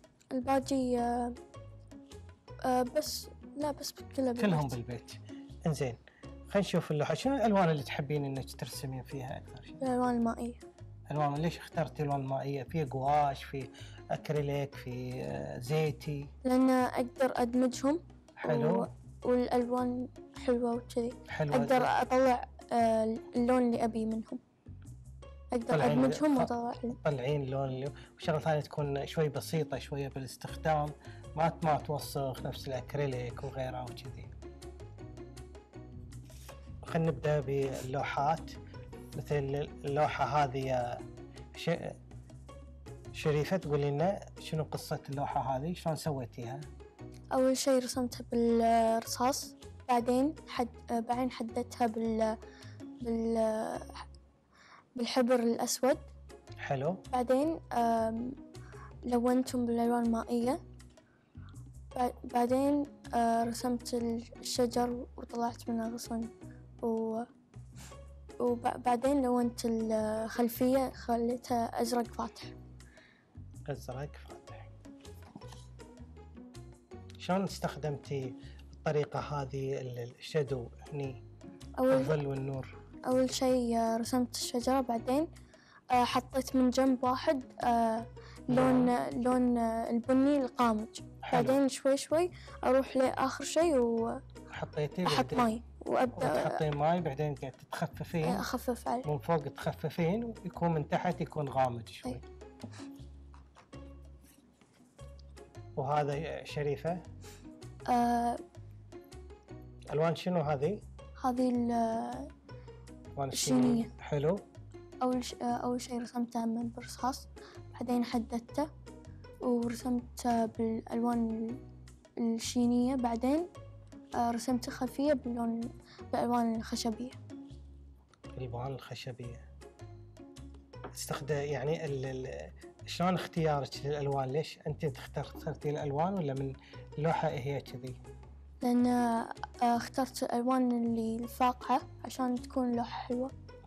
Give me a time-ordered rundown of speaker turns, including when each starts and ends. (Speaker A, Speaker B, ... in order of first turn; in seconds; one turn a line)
Speaker A: 0.3-1.4
Speaker A: 2.6-4.8
Speaker B: 4.4-9.8
Speaker A: 9.8-10.6
Speaker B: 11.1-16.3
Speaker A: 16.4-24.4
Speaker B: 18.4-18.9
Speaker B: 21.3-21.9
Speaker A: 25.5-27.0
Speaker B: 25.7-34.3
Speaker B: 36.8-38.5
Speaker B: 39.1-41.0
Speaker B: 41.5-42.0
Speaker B: 43.1-46.6
Speaker A: 47.3-52.3
Speaker A: 53.0-54.0
Speaker A: 55.0-56.1
Speaker B: 56.6-57.0
Speaker A: 57.1-58.4
Speaker A: 59.1-60.6
Speaker A: 61.9-66.3
Speaker A: 66.8-67.3
Speaker A: 68.4-72.5
Speaker B: 73.7-74.7
Speaker B: 77.2-81.2
Speaker A: 81.8-82.1
Speaker B: 81.9-82.7
Speaker A: 83.1-85.3
Speaker A: 85.9-94.2
Speaker B: 88.5-88.9
Speaker B: 91.2-91.6
Speaker B: 94.5-95.5
Speaker A: 95.0-96.6
Speaker B: 96.1-98.4
Speaker A: 98.2-99.1
Speaker B: 99.0-102.2
Speaker B: 105.8-107.0
Speaker A: 107.9-108.4
Speaker B: 109.9-110.8
Speaker A: 111.2-112.3
Speaker B: 113.2-114.4
Speaker A: 113.3-113.9
Speaker A: 115.0-118.7
Speaker A: 119.4-121.6
Speaker A: 122.2-123.5
Speaker A: 124.2-127.2
Speaker B: 128.3-129.4
Speaker B: 130.9-138.0
Speaker A: 138.6-143.3